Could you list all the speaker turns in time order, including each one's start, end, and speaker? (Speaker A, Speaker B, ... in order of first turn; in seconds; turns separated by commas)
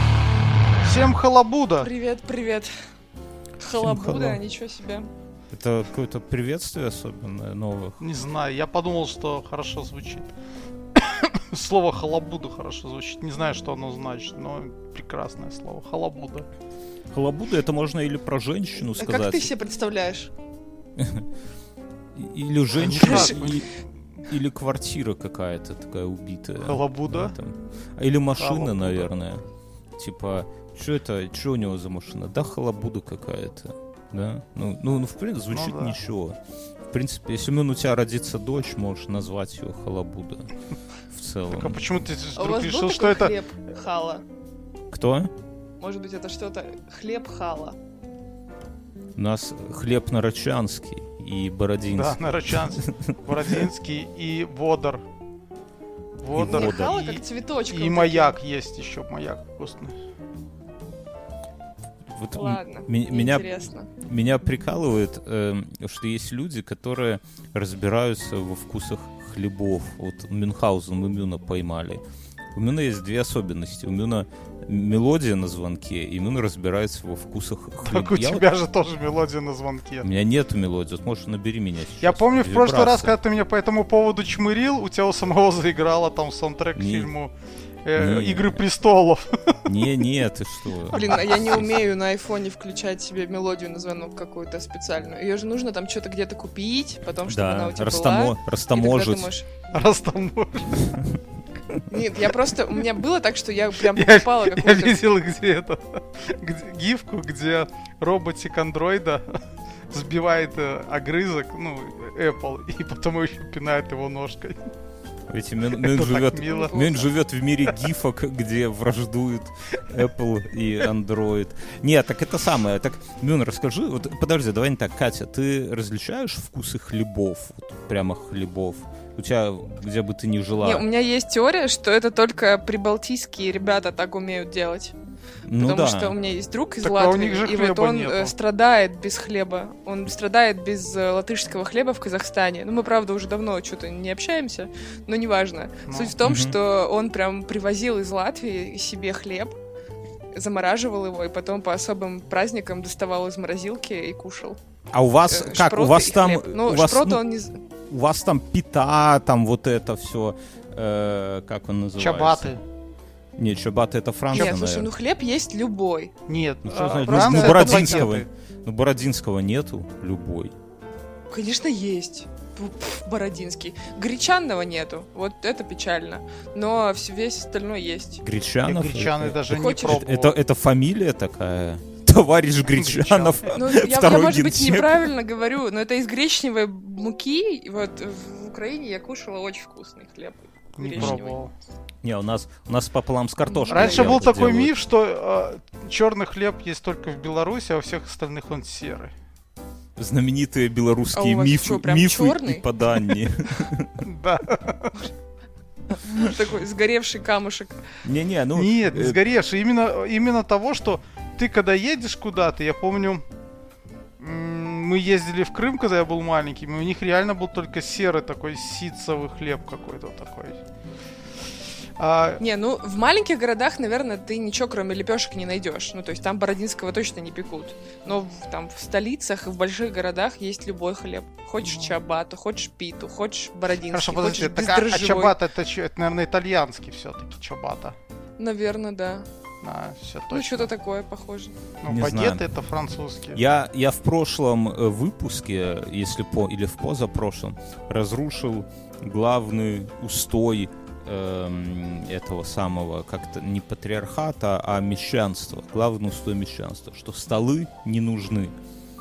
Speaker A: 0.8-1.9, Speaker B: 1.8-2.7, Speaker B: 3.6-5.1, Speaker C: 3.7-4.4, Speaker C: 5.5-8.0, Speaker A: 8.0-10.3, Speaker A: 10.9-16.4, Speaker C: 17.1-19.5, Speaker B: 18.8-20.3, Speaker C: 21.0-21.2, Speaker C: 22.1-23.7, Speaker A: 22.8-23.7, Speaker B: 23.0-23.4, Speaker C: 24.3-29.4, Speaker A: 26.6-27.3, Speaker A: 28.4-29.1, Speaker C: 30.0-36.4, Speaker A: 35.5-36.0, Speaker C: 36.9-40.5, Speaker C: 41.1-41.8, Speaker A: 41.5-43.4, Speaker B: 42.4-44.2, Speaker C: 44.9-45.3, Speaker B: 45.8-47.8, Speaker C: 49.1-52.9, Speaker A: 51.9-55.0, Speaker A: 56.2-59.9, Speaker C: 56.3-56.9, Speaker B: 56.4-58.4, Speaker C: 62.1-63.5, Speaker B: 62.3-63.9, Speaker C: 64.0-72.0, Speaker C: 72.5-78.5, Speaker A: 77.8-80.1, Speaker C: 80.0-83.1, Speaker A: 82.0-87.3, Speaker C: 86.8-87.1, Speaker A: 87.8-89.6, Speaker C: 88.0-88.6, Speaker C: 89.7-91.4, Speaker B: 90.9-99.5, Speaker C: 97.3-99.3, Speaker A: 99.7-101.0, Speaker B: 101.9-105.0, Speaker A: 103.8-109.2, Speaker A: 109.9-114.6, Speaker C: 115.3-130.8, Speaker A: 115.8-117.1, Speaker B: 116.5-117.0, Speaker B: 130.6-134.9, Speaker C: 135.5-136.1, Speaker B: 135.6-149.6, Speaker A: 136.8-138.3, Speaker A: 145.9-146.1, Speaker C: 146.2-146.6, Speaker B: 150.3-154.6, Speaker C: 154.9-157.2, Speaker B: 155.3-157.6, Speaker C: 157.9-162.5, Speaker A: 162.0-162.6, Speaker C: 163.4-164.9, Speaker B: 164.3-166.1, Speaker A: 166.3-168.3, Speaker C: 166.6-170.5, Speaker B: 166.8-168.2, Speaker B: 171.3-178.2, Speaker C: 178.2-185.1, Speaker A: 178.6-180.4, Speaker B: 179.5-180.0, Speaker A: 182.7-183.4, Speaker B: 183.5-191.4, Speaker A: 190.8-191.5, Speaker C: 192.0-194.7, Speaker B: 193.5-194.3, Speaker A: 193.7-199.1, Speaker C: 200.0-204.0, Speaker B: 201.1-202.6, Speaker A: 204.0-205.1, Speaker B: 206.1-207.8, Speaker C: 208.0-209.2, Speaker A: 208.5-213.2, Speaker A: 214.2-220.6, Speaker A: 222.0-222.4, Speaker B: 222.4-235.3, Speaker A: 233.9-237.9, Speaker B: 238.4-239.3, Speaker A: 239.6-240.7, Speaker B: 240.3-241.5, Speaker A: 241.8-243.4, Speaker C: 241.9-242.4, Speaker C: 243.3-258.6